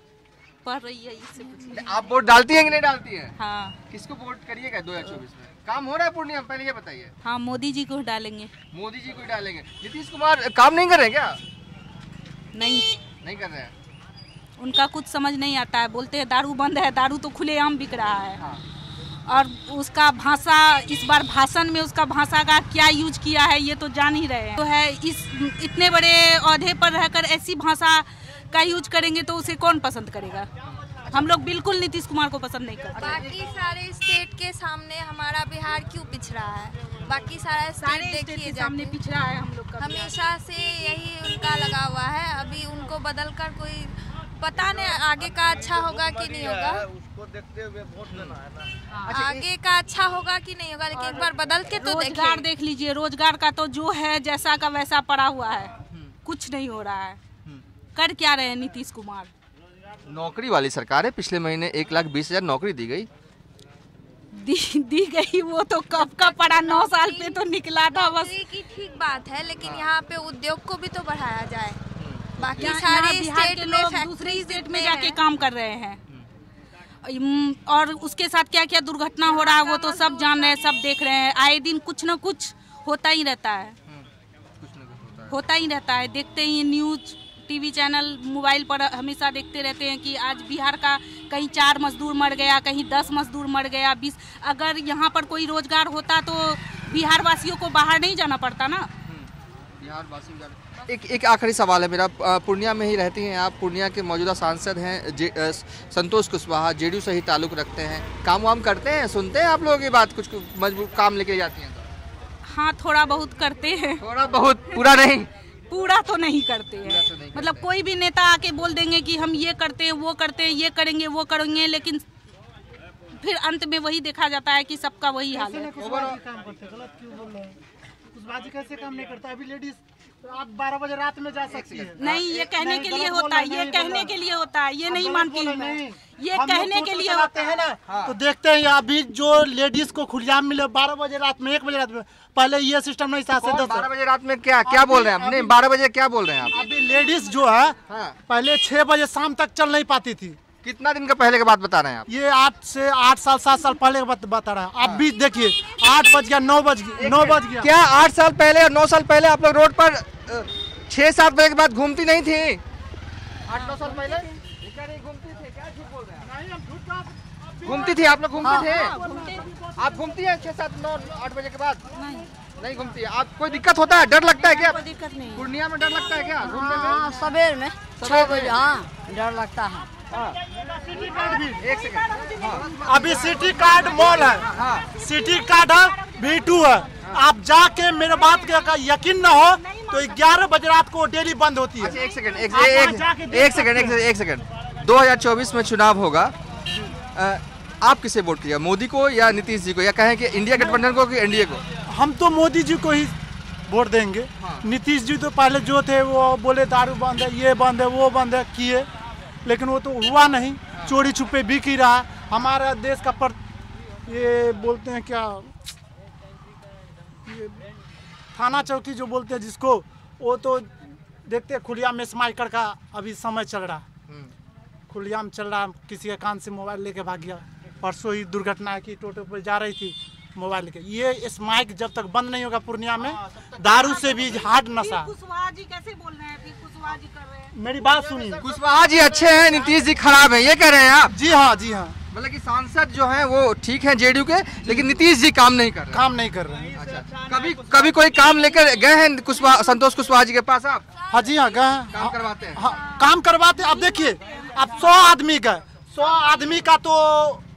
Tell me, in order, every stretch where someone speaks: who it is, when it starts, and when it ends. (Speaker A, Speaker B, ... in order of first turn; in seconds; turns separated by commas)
Speaker A: 0.6-2.0, Speaker B: 1.7-3.4, Speaker A: 3.4-3.8, Speaker B: 3.9-7.1, Speaker A: 7.2-8.5, Speaker B: 8.7-11.4, Speaker A: 12.5-12.9, Speaker B: 13.2-13.7, Speaker A: 14.6-18.4, Speaker A: 19.3-30.5, Speaker B: 30.8-31.1, Speaker A: 31.1-33.2, Speaker C: 33.0-39.0, Speaker B: 33.0-33.3, Speaker A: 37.8-40.1, Speaker C: 39.8-46.9, Speaker B: 48.1-48.4, Speaker A: 48.9-49.4, Speaker C: 49.1-52.5, Speaker A: 51.0-57.2, Speaker A: 58.0-59.3, Speaker B: 60.1-63.1, Speaker A: 64.3-68.4, Speaker C: 66.0-71.8, Speaker B: 69.6-69.9, Speaker B: 72.0-72.8, Speaker C: 72.4-75.2, Speaker A: 72.6-76.0, Speaker A: 77.0-83.8, Speaker C: 79.2-80.6, Speaker B: 84.6-85.3, Speaker A: 85.3-98.9, Speaker B: 99.1-111.9, Speaker A: 112.4-114.0, Speaker B: 114.0-115.3, Speaker A: 115.7-122.0, Speaker B: 116.8-117.7, Speaker A: 123.2-125.8, Speaker D: 125.3-127.6, Speaker B: 125.8-126.2, Speaker D: 128.1-134.1, Speaker B: 131.4-132.4, Speaker A: 132.0-137.6, Speaker D: 134.9-143.9, Speaker B: 137.9-138.2, Speaker B: 143.4-146.6, Speaker D: 144.7-145.6, Speaker D: 146.5-150.4, Speaker B: 147.9-148.2, Speaker B: 150.6-152.1, Speaker D: 152.1-157.7, Speaker B: 154.8-155.1, Speaker B: 157.0-162.6, Speaker B: 163.5-166.3, Speaker A: 163.6-164.1, Speaker D: 166.2-168.2, Speaker B: 167.6-169.0, Speaker A: 168.4-169.5, Speaker D: 168.7-169.9, Speaker B: 169.8-171.8, Speaker A: 171.9-172.3, Speaker B: 172.6-174.8, Speaker A: 174.4-175.5, Speaker B: 175.3-177.4, Speaker E: 176.7-179.8, Speaker B: 178.0-178.8, Speaker B: 180.1-180.4, Speaker D: 180.8-181.6, Speaker A: 181.1-186.8, Speaker B: 181.6-184.9, Speaker D: 182.8-194.0, Speaker A: 188.1-190.3, Speaker B: 191.8-196.3, Speaker A: 191.9-192.6, Speaker B: 196.9-201.6, Speaker D: 200.5-200.8, Speaker D: 201.9-203.1, Speaker D: 203.7-208.9, Speaker B: 204.4-204.7, Speaker D: 209.4-213.4, Speaker D: 214.1-215.5, Speaker D: 217.3-217.6, Speaker D: 218.3-220.7, Speaker D: 221.3-223.8, Speaker D: 224.9-235.1, Speaker A: 233.7-237.5, Speaker D: 237.5-238.4, Speaker B: 238.4-241.2, Speaker D: 241.1-242.0, Speaker B: 242.1-246.0, Speaker D: 244.6-245.0, Speaker D: 245.9-246.7, Speaker B: 246.7-250.9, Speaker D: 251.1-257.4, Speaker B: 251.9-252.6, Speaker A: 253.6-255.0